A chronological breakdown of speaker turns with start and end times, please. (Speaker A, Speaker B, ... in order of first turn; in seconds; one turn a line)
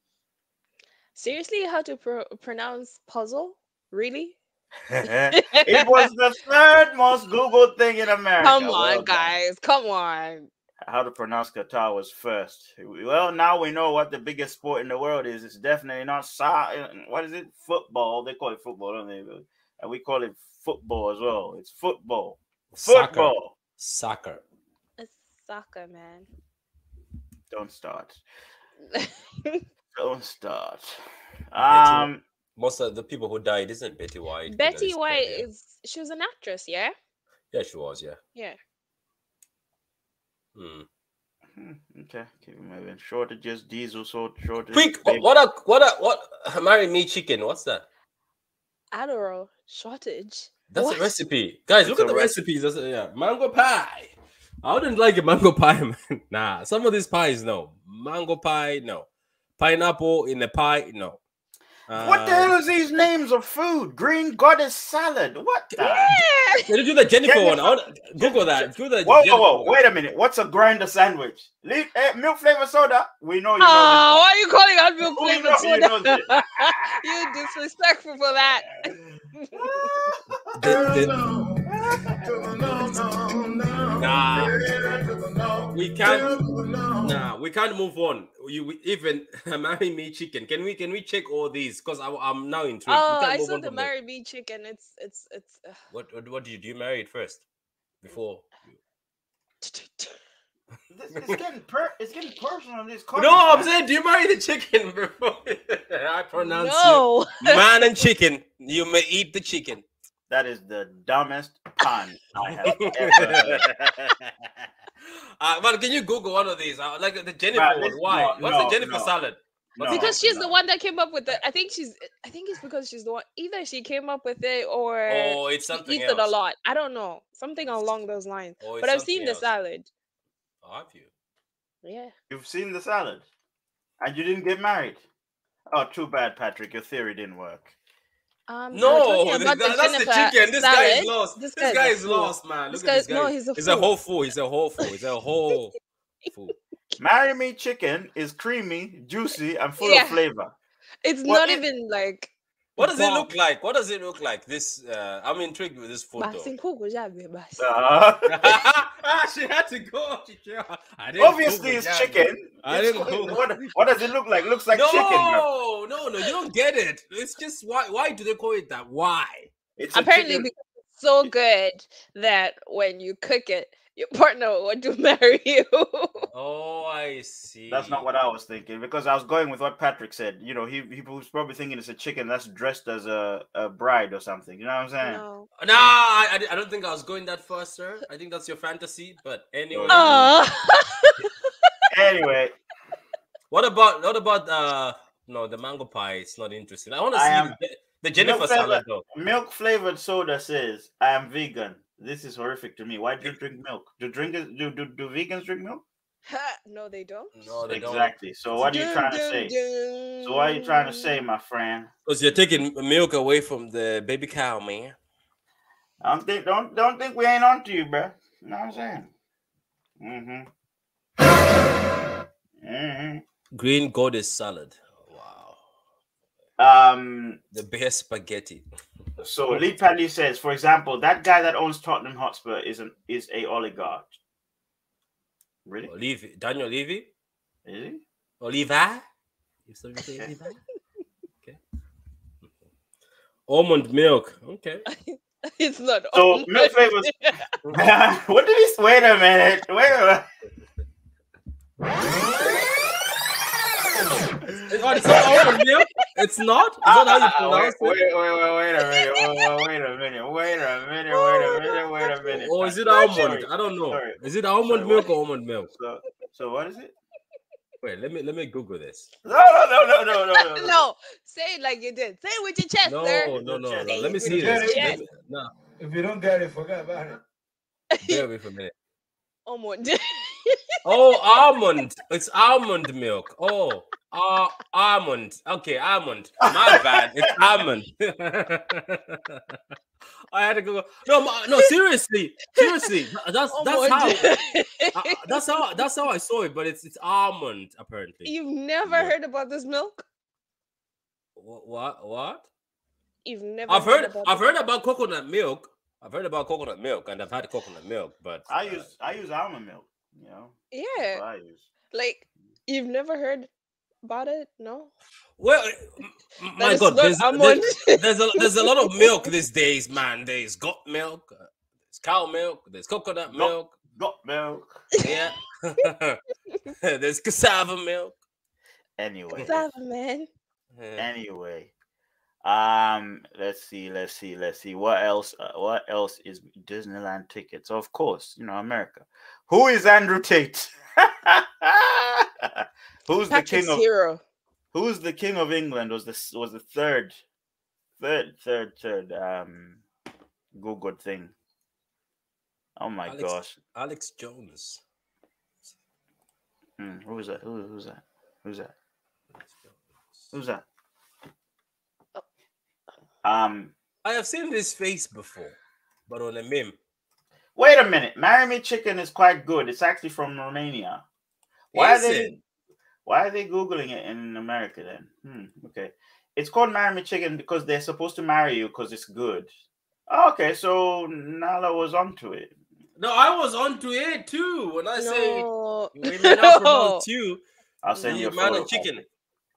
Speaker A: 1.1-4.3
Speaker B: 4.9-9.3
Speaker A: 5.3-6.0
Speaker A: 8.4-10.5
Speaker B: 10.8-23.5
Speaker C: 22.7-24.4
Speaker A: 25.0-26.3
Speaker B: 27.5-28.2
Speaker A: 28.9-29.6
Speaker B: 29.9-30.9
Speaker B: 31.5-32.2
Speaker C: 31.6-35.4
Speaker A: 34.5-36.9
Speaker C: 37.5-38.2
Speaker C: 40.5-40.9
Speaker B: 41.5-45.3
Speaker C: 44.7-47.9
Speaker A: 48.9-51.2
Speaker C: 50.7-59.1
Speaker B: 51.8-52.3
Speaker C: 59.6-61.2
Speaker C: 61.9-62.5
Speaker B: 62.0-66.2
Speaker A: 65.8-66.7
Speaker C: 66.7-69.8
Speaker B: 67.2-74.2
Speaker A: 73.6-80.2
Speaker B: 75.0-77.0
Speaker B: 79.5-80.4
Speaker C: 80.5-81.1
Speaker D: 80.6-87.2
Speaker B: 81.7-82.3
Speaker C: 84.0-84.5
Speaker C: 85.7-86.3
Speaker C: 87.0-93.9
Speaker A: 92.9-95.8
Speaker C: 95.9-97.4
Speaker C: 98.0-98.8
Speaker A: 99.6-100.1
Speaker B: 100.9-103.7
Speaker C: 103.2-109.8
Speaker A: 106.4-107.7
Speaker B: 110.3-113.7
Speaker C: 112.6-114.3
Speaker C: 115.1-120.2
Speaker B: 117.5-119.1
Speaker B: 119.8-120.5
Speaker A: 119.9-129.9
Speaker C: 125.1-126.3
Speaker C: 128.6-129.5
Speaker C: 130.6-131.1
Speaker A: 131.8-132.1
Speaker B: 132.3-133.2
Speaker B: 134.0-135.0
Speaker B: 135.7-137.7
Speaker A: 138.5-143.9
Speaker C: 138.7-145.7
Speaker C: 146.3-146.6
Speaker B: 147.0-150.5
Speaker A: 149.8-150.2
Speaker A: 151.0-153.3
Speaker B: 151.2-151.6
Speaker C: 152.8-156.5
Speaker A: 156.2-157.7
Speaker B: 157.6-158.6
Speaker C: 158.2-163.8
Speaker B: 161.2-165.5
Speaker C: 164.7-169.5
Speaker B: 169.8-170.5
Speaker A: 169.9-176.2
Speaker C: 176.3-178.0
Speaker B: 177.7-185.2
Speaker A: 185.0-185.5
Speaker C: 185.6-190.3
Speaker B: 189.7-190.1
Speaker A: 189.9-191.7
Speaker B: 191.9-192.5
Speaker C: 193.5-199.0
Speaker B: 197.1-197.6
Speaker B: 198.2-205.8
Speaker A: 206.2-207.5
Speaker C: 207.3-208.7
Speaker B: 207.7-209.5
Speaker A: 208.6-211.2
Speaker B: 210.2-211.9
Speaker C: 212.1-214.9
Speaker B: 216.0-219.1
Speaker B: 220.0-220.5
Speaker B: 222.6-223.2
Speaker C: 223.5-225.6
Speaker B: 226.6-227.4
Speaker C: 227.5-228.6
Speaker B: 229.2-234.1
Speaker B: 235.6-235.9
Speaker C: 235.9-237.1
Speaker B: 237.6-238.0
Speaker C: 238.4-239.0
Speaker C: 239.7-240.6
Speaker C: 243.5-244.8
Speaker A: 244.9-247.4
Speaker B: 246.1-247.1
Speaker B: 247.7-250.3
Speaker B: 254.5-255.4
Speaker C: 254.7-258.0
Speaker A: 255.1-255.6
Speaker B: 256.8-265.1
Speaker A: 258.9-259.2
Speaker A: 261.1-262.4
Speaker C: 262.3-265.7
Speaker B: 265.7-266.9
Speaker C: 267.8-269.1
Speaker B: 269.2-270.8
Speaker A: 270.2-275.0
Speaker C: 272.8-275.5
Speaker B: 273.3-274.4
Speaker D: 274.3-275.0
Speaker D: 275.8-277.2
Speaker A: 277.9-278.2
Speaker C: 278.0-278.7
Speaker A: 279.4-280.8
Speaker C: 280.8-289.6
Speaker B: 286.4-287.3
Speaker C: 290.3-294.3
Speaker A: 292.6-292.9
Speaker A: 293.5-295.4
Speaker C: 294.9-298.3
Speaker A: 298.2-300.0
Speaker C: 298.8-299.1
Speaker C: 301.4-302.5
Speaker A: 303.2-304.4
Speaker C: 303.7-308.8
Speaker B: 308.5-311.7
Speaker A: 310.7-311.2
Speaker A: 311.9-313.5
Speaker A: 314.0-314.9
Speaker C: 315.4-323.7
Speaker A: 316.6-319.3
Speaker B: 323.3-324.8
Speaker C: 325.0-326.2
Speaker C: 326.8-328.1
Speaker B: 329.0-329.6
Speaker A: 329.4-330.3
Speaker C: 330.7-331.1
Speaker B: 331.0-331.7
Speaker B: 332.4-343.8
Speaker A: 343.3-344.2
Speaker B: 344.7-347.2
Speaker B: 348.0-349.8
Speaker B: 350.5-351.3
Speaker B: 352.8-353.6
Speaker C: 353.1-354.8
Speaker B: 356.8-358.7
Speaker B: 360.3-360.6
Speaker B: 363.2-363.7
Speaker C: 364.0-365.6
Speaker C: 366.1-366.8
Speaker B: 367.6-371.0
Speaker B: 371.7-372.4
Speaker C: 371.7-372.3
Speaker B: 373.1-379.5
Speaker B: 380.1-382.5
Speaker C: 383.0-387.4
Speaker A: 385.0-387.0
Speaker B: 387.8-389.0
Speaker C: 388.0-389.0